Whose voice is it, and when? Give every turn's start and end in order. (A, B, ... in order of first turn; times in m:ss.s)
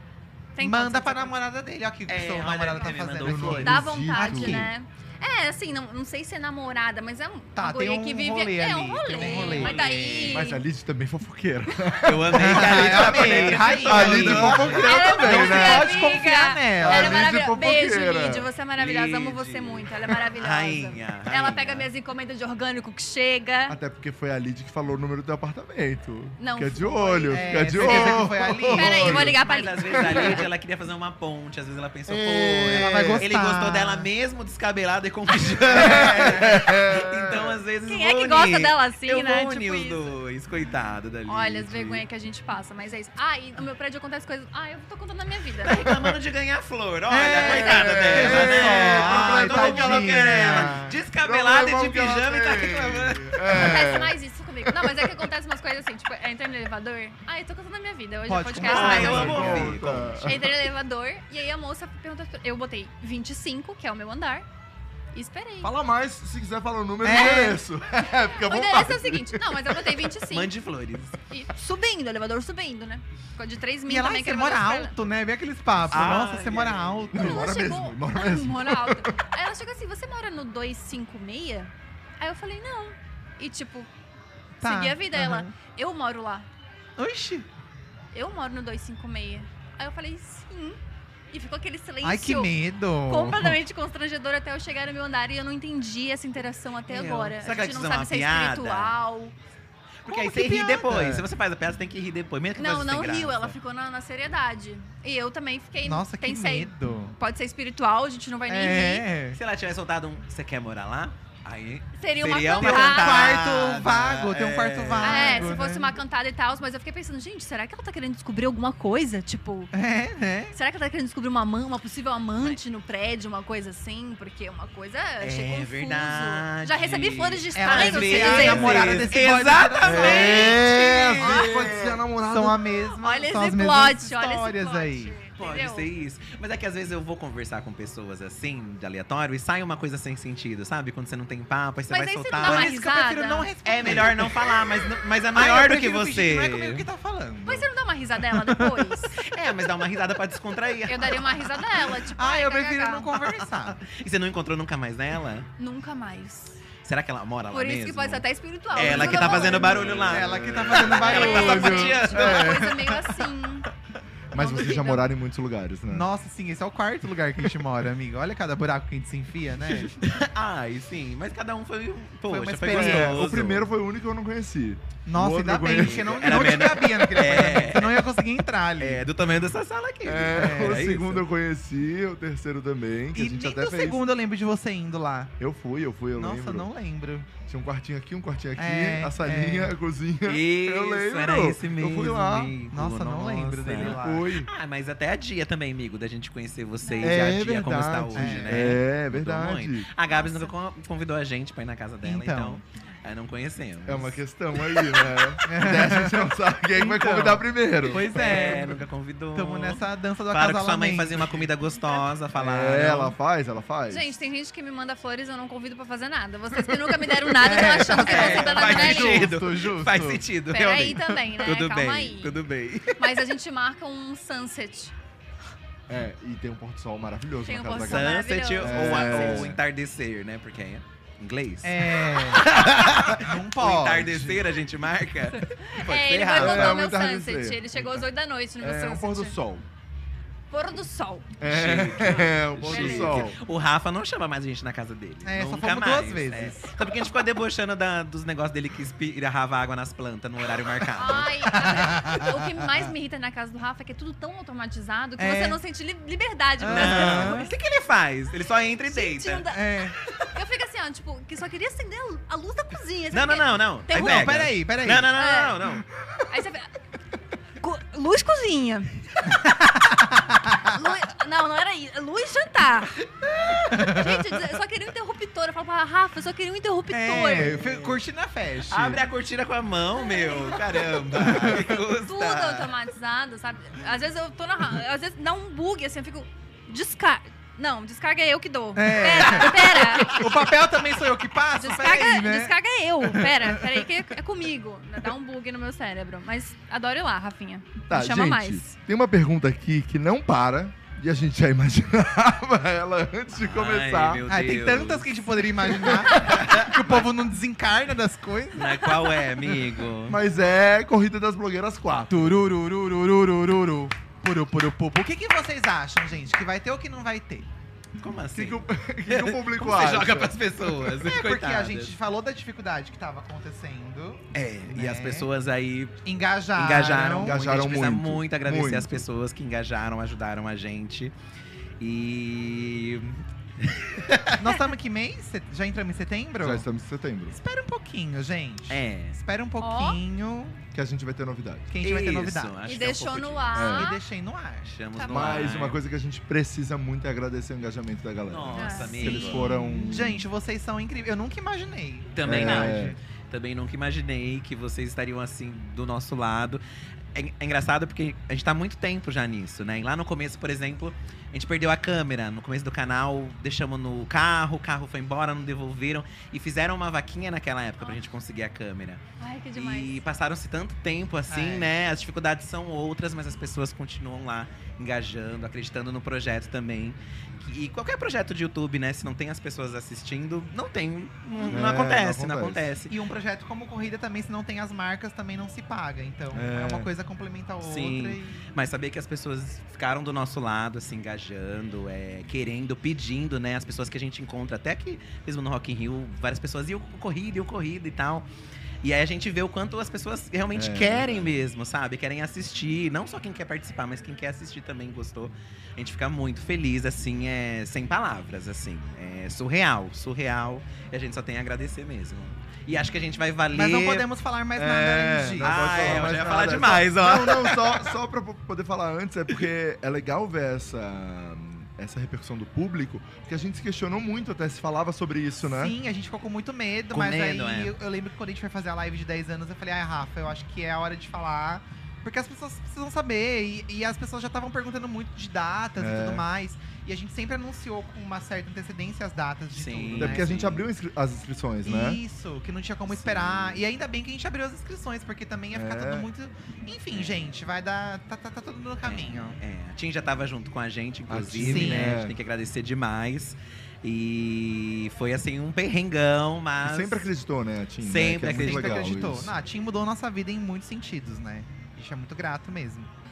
0:00.5-0:01.3 A
0:00.6-0:04.7 B
0:02.1-0:03.8 C
0:03.2-0:04.7 D
0:03.6-0:10.6 A
0:07.5-0:10.5 B
0:09.2-0:10.0 C
0:10.3-0:16.0 D
0:12.0-0:15.0 C
0:12.3-0:17.3 B
0:14.6-0:23.8 A
0:16.8-0:18.5 D
0:18.8-0:21.9 C
0:23.7-0:30.4 D
0:26.4-0:30.4 A
0:27.3-0:29.3 B
0:29.1-0:42.0 C
0:32.1-0:33.2 D
0:32.7-0:34.1 B
0:35.6-0:37.6 D
0:35.7-0:36.2 B
0:37.8-0:40.1 A
0:41.2-0:45.9 A
0:45.6-0:53.6 C
0:47.1-0:51.0 B
0:47.4-0:55.2 D
0:53.5-0:59.4 A
0:58.3-0:59.8 B
0:58.6-1:00.4 C
0:58.7-1:00.5 D
1:00.2-1:04.4 A
1:05.1-1:05.7 A
1:05.6-1:10.1 D
1:07.0-1:07.6 B
1:07.1-1:07.5 A
1:08.3-1:10.5 A
1:10.3-1:11.2 C
1:11.3-1:15.0 A
1:13.9-1:17.5 B
1:15.9-1:17.1 C
1:17.1-1:19.2 D
1:17.1-1:23.9 A
1:24.6-1:25.5 B
1:24.6-1:26.5 A
1:27.0-1:27.5 B
1:28.1-1:30.8 A
1:31.3-1:39.3 A
1:32.0-1:33.6 B
1:36.9-1:39.0 C
1:40.0-1:43.5 C
1:40.1-1:41.3 B
1:42.6-1:49.0 A
1:45.8-1:47.1 B
1:48.5-1:49.4 B
1:49.3-1:55.5 C
1:52.0-1:53.4 A
1:52.5-1:55.9 B
1:55.0-1:59.7 A
1:59.7-2:00.6 B
2:00.5-2:08.9 A
2:05.2-2:12.0 C
2:07.5-2:10.6 B
2:08.5-2:09.0 D
2:09.8-2:12.6 D
2:10.0-2:11.4 A
2:12.2-2:15.1 B
2:13.0-2:15.9 A
2:15.4-2:22.7 C
2:21.9-2:24.0 A
2:22.4-2:24.7 B
2:23.6-2:26.8 C
2:25.3-2:27.7 B
2:27.4-2:29.2 A
2:28.2-2:29.0 B
2:29.2-2:31.6 C
2:30.8-2:33.1 A
2:31.8-2:33.8 B
2:33.8-2:35.5 C
2:35.6-2:36.6 A
2:36.8-2:42.6 C
2:37.5-2:39.9 A
2:38.8-2:43.1 D
2:38.8-2:42.5 B
2:41.0-2:43.7 A
2:44.3-2:46.1 D
2:44.3-2:45.0 A
2:45.9-2:49.9 B
2:49.7-2:53.7 C
2:52.3-2:53.2 B
2:52.7-2:56.9 D
2:55.0-2:59.1 B
2:55.7-2:58.1 C
2:58.8-3:01.2 C
3:00.0-3:04.0 D
3:00.3-3:00.8 B
3:03.1-3:05.3 B
3:05.4-3:06.7 D
3:06.1-3:07.3 B
3:07.4-3:12.5 D
3:08.6-3:09.7 B
3:10.2-3:24.2 C
3:12.7-3:14.3 B
3:13.7-3:14.5 D
3:17.0-3:19.9 D
3:18.1-3:18.8 B
3:22.0-3:22.6 B
3:23.8-3:28.6 D
3:25.4-3:28.8 B
3:27.8-3:33.2 C
3:29.3-3:31.5 B
3:32.3-3:34.1 D
3:33.9-3:39.3 A
3:37.4-3:40.2 B
3:37.8-3:43.1 C
3:40.5-3:42.4 A
3:43.0-3:44.9 A
3:45.9-3:49.6 D
3:47.4-3:49.5 A
3:47.8-3:56.9 C
3:51.6-3:54.5 B
3:55.3-3:59.4 A
3:56.3-3:58.0 D
3:58.6-3:59.6 D
4:00.5-4:01.3 A
4:01.4-4:03.4 D
4:01.4-4:11.7 C
4:02.7-4:03.3 A
4:05.2-4:06.7 B
4:10.9-4:17.5 A
4:11.5-4:12.6 B
4:15.2-4:15.6 B
4:16.6-4:17.5 B
4:16.7-4:19.5 C
4:18.8-4:24.4 A
4:19.5-4:19.9 B
4:23.1-4:25.8 C
4:23.9-4:25.1 B
4:25.1-4:25.6 A
4:26.3-4:26.7 A
4:27.6-4:29.5 A
4:29.4-4:30.6 B
4:30.6-4:37.6 A
4:33.4-4:34.2 B
4:36.9-4:39.0 B
4:37.4-4:38.0 C
4:38.7-4:42.7 C
4:40.0-4:40.8 A
4:41.1-4:41.7 B
4:42.0-4:50.2 A
4:48.8-4:53.8 B
4:51.6-4:58.7 A
4:57.9-5:04.2 D
5:03.3-5:05.2 C
5:04.3-5:09.6 B
5:05.8-5:06.1 D
5:06.0-5:07.1 C
5:08.5-5:10.2 C
5:10.1-5:12.4 D
5:12.1-5:17.5 B
5:18.0-5:21.9 C
5:18.3-5:20.9 D
5:21.0-5:25.3 B
5:24.3-5:26.0 C
5:26.0-5:27.4 B
5:26.6-5:31.1 C
5:27.2-5:29.0 D
5:31.8-5:34.5 C
5:34.4-5:36.6 B
5:36.4-5:37.4 D
5:37.3-5:40.6 B
5:38.7-5:39.2 C
5:39.6-5:40.0 A
5:40.7-5:41.7 D
5:41.7-5:42.5 B
5:41.8-5:43.6 C
5:42.6-5:44.0 A
5:43.5-5:43.9 D
5:43.7-5:44.7 B
5:44.6-5:45.8 C
5:45.0-5:45.5 A
5:45.0-5:50.2 D
5:48.3-5:49.5 C
5:48.5-5:49.3 A
5:49.0-5:53.0 B
5:52.1-5:56.6 C
5:52.2-5:53.0 D
5:57.1-6:09.0 C
6:09.2-6:10.0 A
6:09.5-6:22.9 C
6:11.3-6:11.7 B
6:21.5-6:22.7 D
6:22.9-6:28.5 B
6:26.3-6:26.9 D
6:27.6-6:38.2 C
6:38.8-6:54.0 C
6:40.5-6:41.4 D
6:53.5-6:56.1 B
6:54.6-7:05.7 D
6:55.4-6:57.9 C
7:05.4-7:20.3 B
7:06.9-7:07.7 C
7:15.8-7:16.2 D
7:19.5-7:20.7 C
7:20.0-7:22.0 D
7:21.6-7:29.4 B
7:23.0-7:23.5 D
7:25.5-7:26.1 D
7:26.9-7:27.3 C
7:28.8-7:37.1 C
7:31.1-7:32.1 D
7:31.4-7:32.0 B
7:36.6-7:39.3 D
7:37.8-7:38.9 C
7:38.3-7:42.9 B